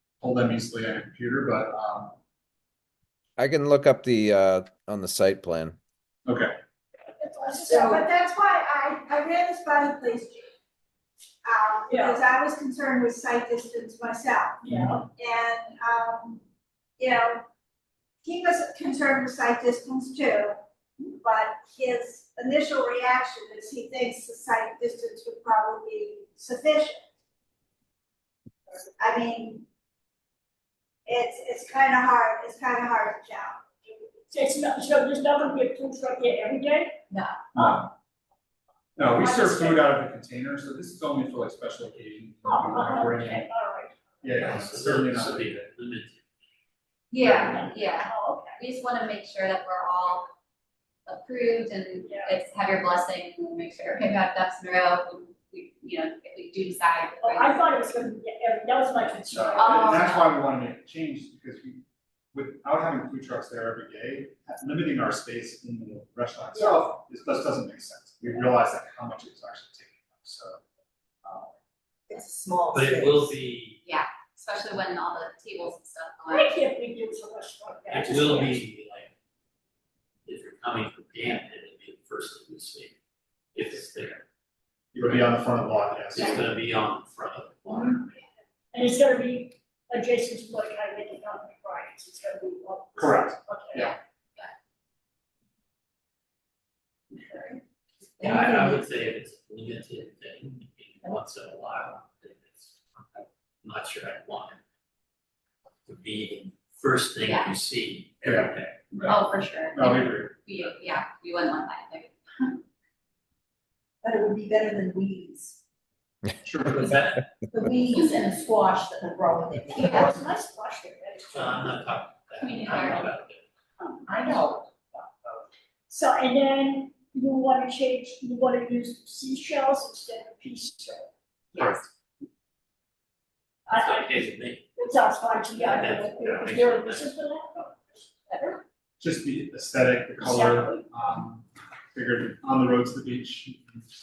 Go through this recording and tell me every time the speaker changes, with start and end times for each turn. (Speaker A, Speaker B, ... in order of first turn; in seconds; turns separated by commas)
Speaker A: 0.2-2.2, Speaker B: 3.4-5.8, Speaker A: 6.3-6.5, Speaker C: 7.2-8.1, Speaker D: 7.5-10.5, Speaker D: 11.4-16.4, Speaker C: 11.9-12.2, Speaker C: 14.6-15.0, Speaker A: 14.7-15.0, Speaker D: 17.0-17.4, Speaker D: 18.2-20.6, Speaker D: 21.1-27.1, Speaker D: 29.0-29.6, Speaker D: 31.1-34.3, Speaker C: 34.3-37.0, Speaker E: 37.1-37.4, Speaker A: 37.5-37.9, Speaker A: 39.0-43.5, Speaker C: 39.2-39.9, Speaker C: 42.4-44.4, Speaker A: 44.2-45.7, Speaker F: 44.4-46.2, Speaker E: 47.1-50.3, Speaker A: 47.2-47.6, Speaker C: 47.4-48.6, Speaker E: 51.1-57.6, Speaker C: 52.0-52.4, Speaker C: 57.2-60.1, Speaker A: 59.3-70.6, Speaker E: 59.6-60.3, Speaker C: 66.5-66.8, Speaker A: 71.2-71.5, Speaker G: 72.1-73.3, Speaker F: 72.7-73.8, Speaker E: 73.8-76.6, Speaker C: 76.3-78.6, Speaker F: 77.9-79.1, Speaker F: 80.2-83.0, Speaker F: 83.5-84.2, Speaker A: 84.9-86.6, Speaker F: 86.1-88.1, Speaker C: 88.7-93.9, Speaker A: 93.0-93.9, Speaker E: 93.8-94.5, Speaker F: 98.2-104.6, Speaker F: 105.9-108.8, Speaker E: 107.2-107.5, Speaker A: 108.2-109.2, Speaker E: 109.0-112.5, Speaker A: 109.7-110.3, Speaker G: 114.0-115.6, Speaker F: 116.5-117.3, Speaker G: 117.5-120.0, Speaker E: 118.0-118.4, Speaker E: 119.8-120.1, Speaker C: 119.9-121.9, Speaker F: 121.3-123.4, Speaker E: 122.4-123.1, Speaker G: 124.1-125.0, Speaker C: 125.9-131.1, Speaker E: 131.5-131.9, Speaker C: 133.7-138.6, Speaker F: 133.7-134.7, Speaker F: 135.6-137.2, Speaker A: 139.0-143.8, Speaker C: 140.2-140.9